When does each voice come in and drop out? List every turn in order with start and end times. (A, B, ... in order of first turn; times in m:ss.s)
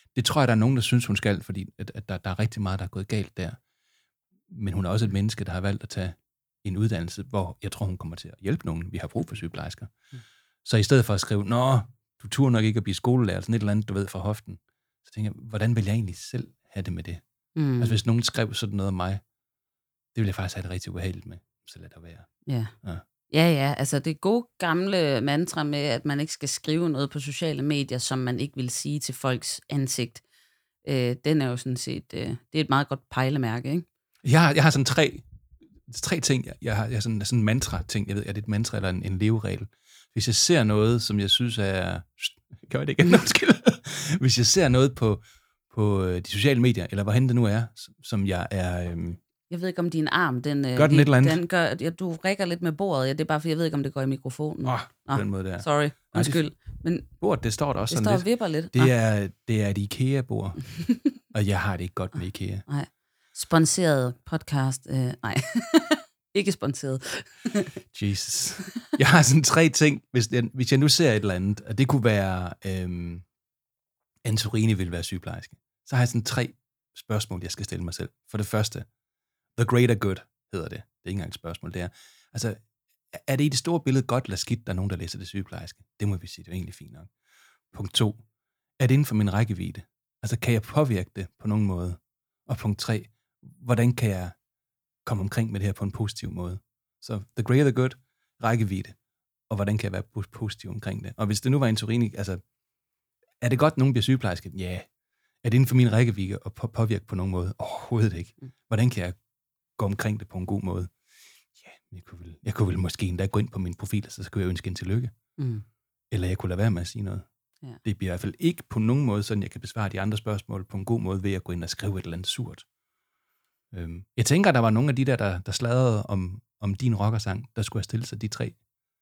0:00.1-0:03.6 A
0:04.5-0:09.9 A
0:10.6-0:17.2 A
0:17.6-0:18.0 B
0:17.8-0:19.2 A
0:20.1-0:23.0 A
0:22.4-0:22.7 B
0:23.3-0:30.2 B
0:30.8-0:33.8 B
0:34.2-0:35.2 A
0:35.9-0:49.2 A
0:49.5-0:57.1 B
0:50.7-0:51.4 A
0:54.6-0:56.5 A
0:57.0-1:02.6 A
0:57.9-0:58.9 B
1:02.7-1:07.7 B
1:07.9-1:13.2 A
1:14.2-1:18.9 A
1:19.6-1:22.6 A
1:23.1-1:27.1 A
1:27.7-1:28.2 A
1:28.8-1:34.3 A
1:35.0-1:39.0 A
1:39.5-1:42.4 A
1:43.4-1:44.9 A
1:45.4-1:49.2 A
1:49.8-1:50.9 A
1:51.6-1:55.1 A
1:55.4-1:55.6 B
1:56.1-1:57.2 A
1:57.8-2:02.6 A
2:03.7-2:08.6 A